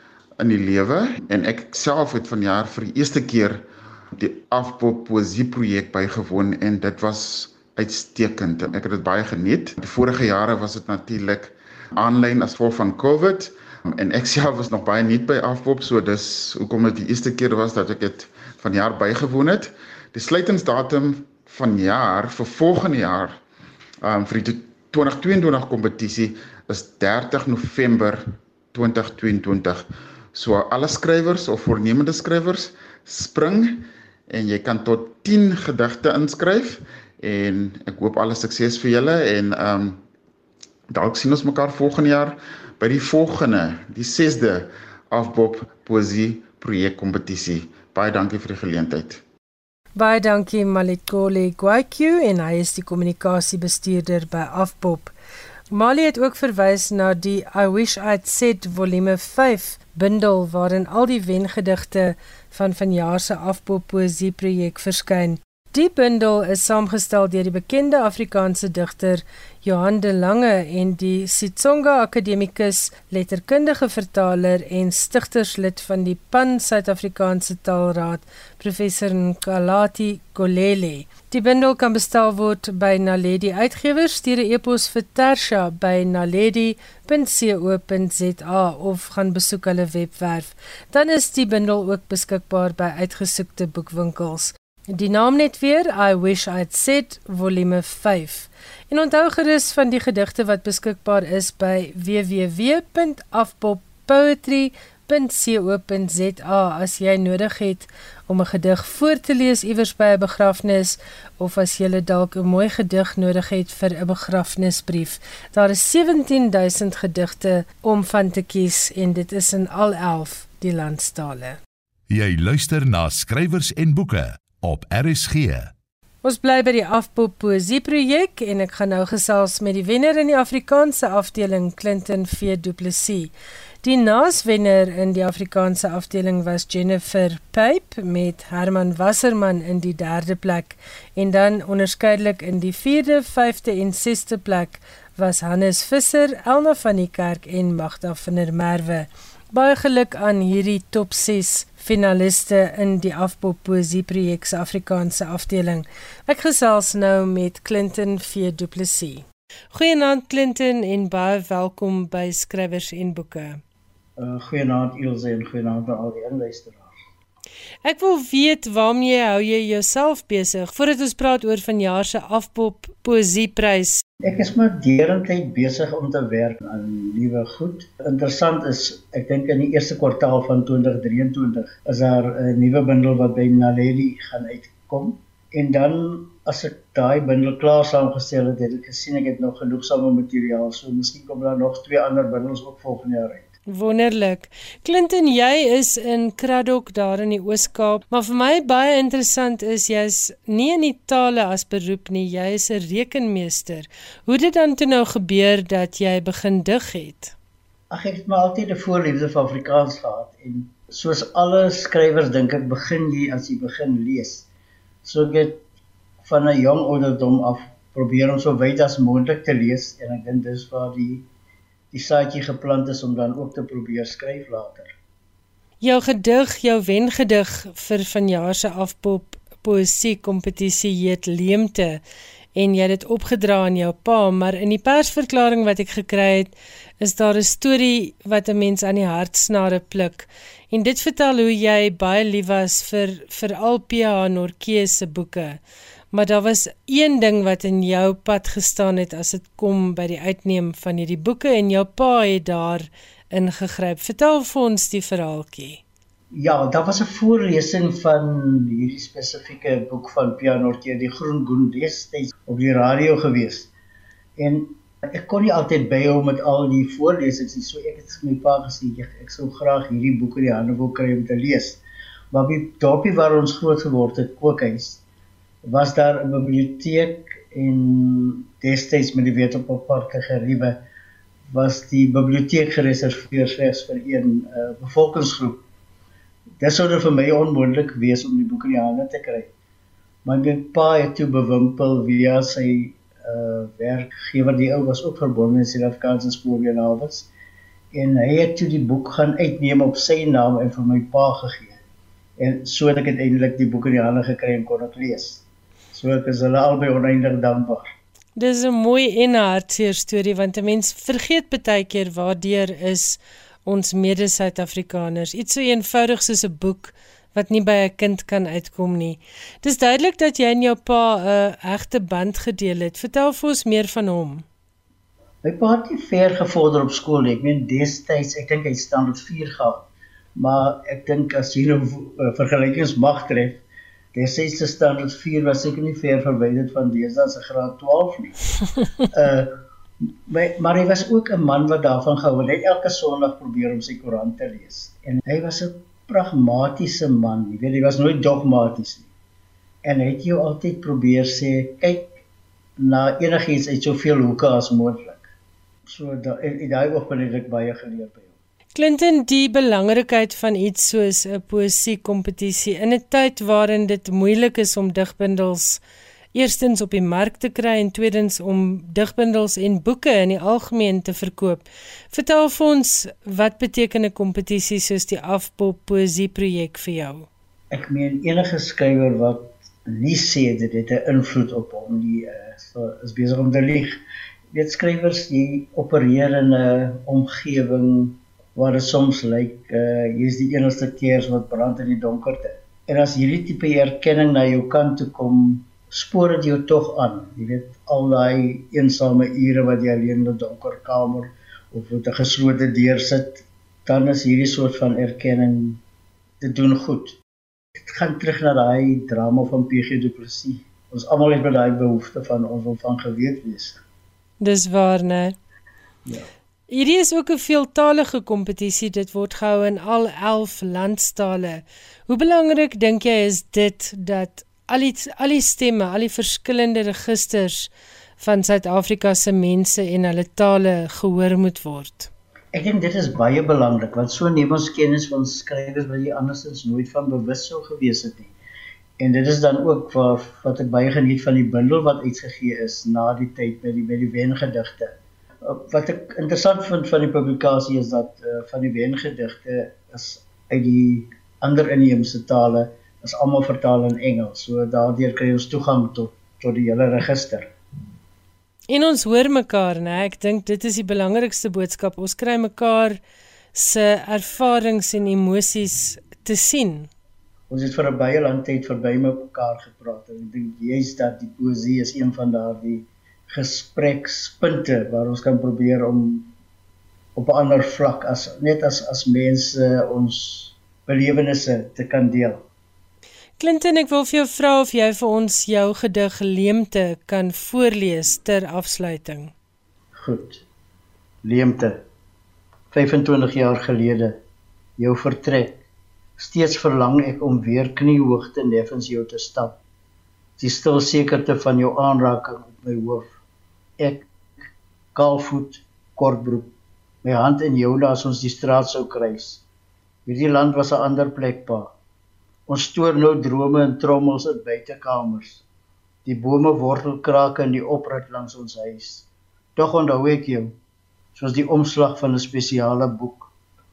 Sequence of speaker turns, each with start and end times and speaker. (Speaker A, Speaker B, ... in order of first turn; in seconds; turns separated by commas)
Speaker A: 0.4-23.4, Speaker A: 24.0-40.0, Speaker A: 40.9-49.2, Speaker B: 50.0-55.1, Speaker B: 55.7-121.6, Speaker C: 122.1-125.7, Speaker B: 126.2-133.3, Speaker B: 133.8-163.6, Speaker D: 164.2-166.9, Speaker B: 167.8-174.0, Speaker D: 174.2-193.5, Speaker B: 193.7-207.3, Speaker D: 207.9-214.5, Speaker D: 215.0-215.6, Speaker D: 216.2-221.3, Speaker D: 221.9-224.9, Speaker B: 225.8-232.0, Speaker B: 232.6-245.6, Speaker B: 246.1-255.8, Speaker D: 256.3-263.7, Speaker D: 264.4-271.8, Speaker D: 272.3-275.0, Speaker D: 275.6-280.8, Speaker D: 281.5-285.6, Speaker D: 286.6-289.5, Speaker D: 290.2-297.3, Speaker D: 297.9-301.8, Speaker D: 302.4-305.4, Speaker D: 305.9-307.9, Speaker B: 308.4-324.4, Speaker D: 325.4-329.9, Speaker D: 330.4-333.6, Speaker D: 334.1-338.4, Speaker D: 339.1-339.5, Speaker D: 340.3-349.1, Speaker D: 349.8-352.1, Speaker D: 352.8-355.2, Speaker D: 355.9-358.3, Speaker B: 358.8-365.8, Speaker B: 366.3-377.3, Speaker D: 377.7-384.0, Speaker D: 384.5-405.8, Speaker D: 406.4-407.2, Speaker D: 407.9-413.8, Speaker B: 414.4-415.4, Speaker B: 416.7-432.1, Speaker D: 432.5-438.3, Speaker D: 439.0-444.9, Speaker D: 445.4-457.5, Speaker B: 458.7-463.0, Speaker B: 463.5-466.9, Speaker D: 467.5-476.3, Speaker D: 477.2-482.4, Speaker B: 483.4-489.3, Speaker D: 490.0-490.4, Speaker D: 491.2-491.8, Speaker D: 492.7-494.2, Speaker D: 494.8-495.6, Speaker D: 496.2-499.6, Speaker D: 500.4-503.1, Speaker D: 503.8-504.1, Speaker D: 504.9-506.5, Speaker D: 507.0-509.4, Speaker D: 510.1-511.7, Speaker D: 512.5-515.4, Speaker D: 516.0-520.6, Speaker D: 521.1-523.3